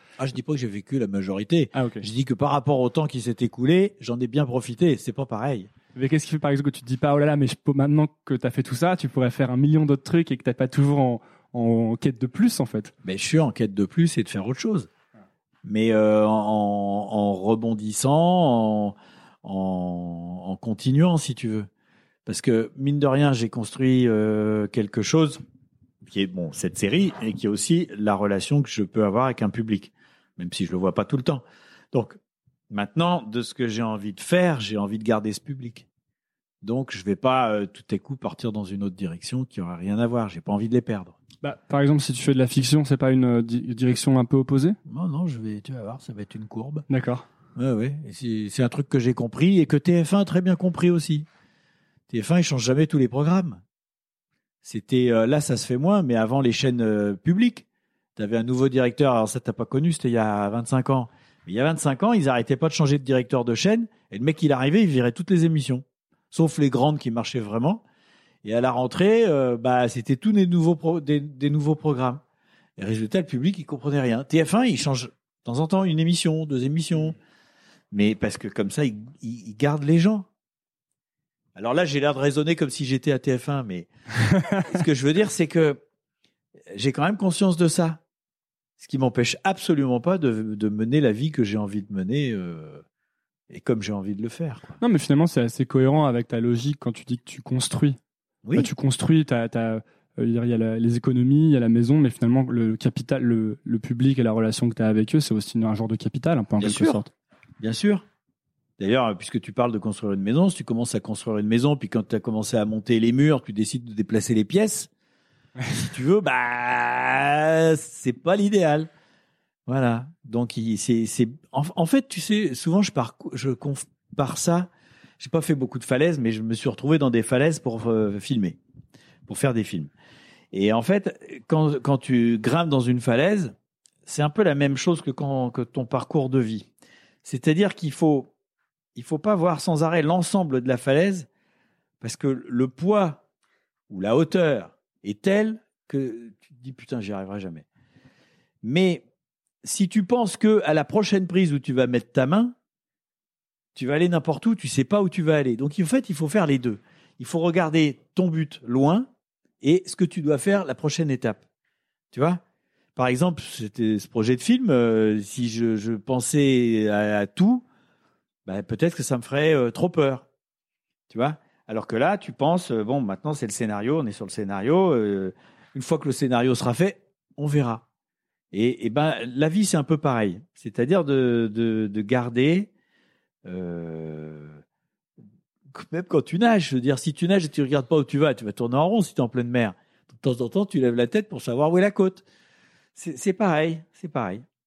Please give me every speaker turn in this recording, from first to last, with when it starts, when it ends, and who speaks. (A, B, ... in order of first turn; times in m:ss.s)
0:00.2-0:05.7 A
0:01.7-0:02.1 B
0:05.9-0:12.9 B
0:13.0-0:14.9 A
0:15.6-0:21.7 A
0:22.2-0:25.4 A
0:26.0-0:32.2 A
0:32.7-0:35.9 A
0:36.6-0:41.2 A
0:41.4-0:44.8 B
0:44.9-0:46.8 A
0:46.9-0:47.2 B
0:47.6-0:51.2 A
0:52.1-0:53.6 A
0:54.6-0:57.6 A
0:58.2-1:07.8 A
1:08.4-1:12.2 A
1:12.8-1:17.2 A
1:17.9-1:20.3 A
1:21.6-1:25.8 A
1:26.7-1:28.0 A
1:28.8-1:32.8 A
1:33.5-1:34.8 A
1:34.8-1:38.0 B
1:38.5-1:47.1 B
1:46.6-1:47.0 A
1:47.6-1:48.0 A
1:48.8-1:54.9 A
1:55.7-1:58.9 A
1:59.7-2:08.6 A
2:09.3-2:09.9 A
2:10.5-2:13.5 A
2:14.0-2:16.7 A
2:17.2-2:18.3 A
2:18.9-2:21.3 A
2:22.0-2:23.2 A
2:23.9-2:27.6 A
2:28.6-2:29.0 A
2:29.6-2:32.5 A
2:33.7-2:39.1 A
2:39.6-2:41.4 A
2:42.1-2:42.4 A
2:43.0-2:47.6 A
2:48.4-2:50.2 A
2:51.1-2:57.8 A
2:58.5-3:02.7 A
3:03.4-3:04.6 A
3:05.7-3:12.2 A
3:13.0-3:14.4 A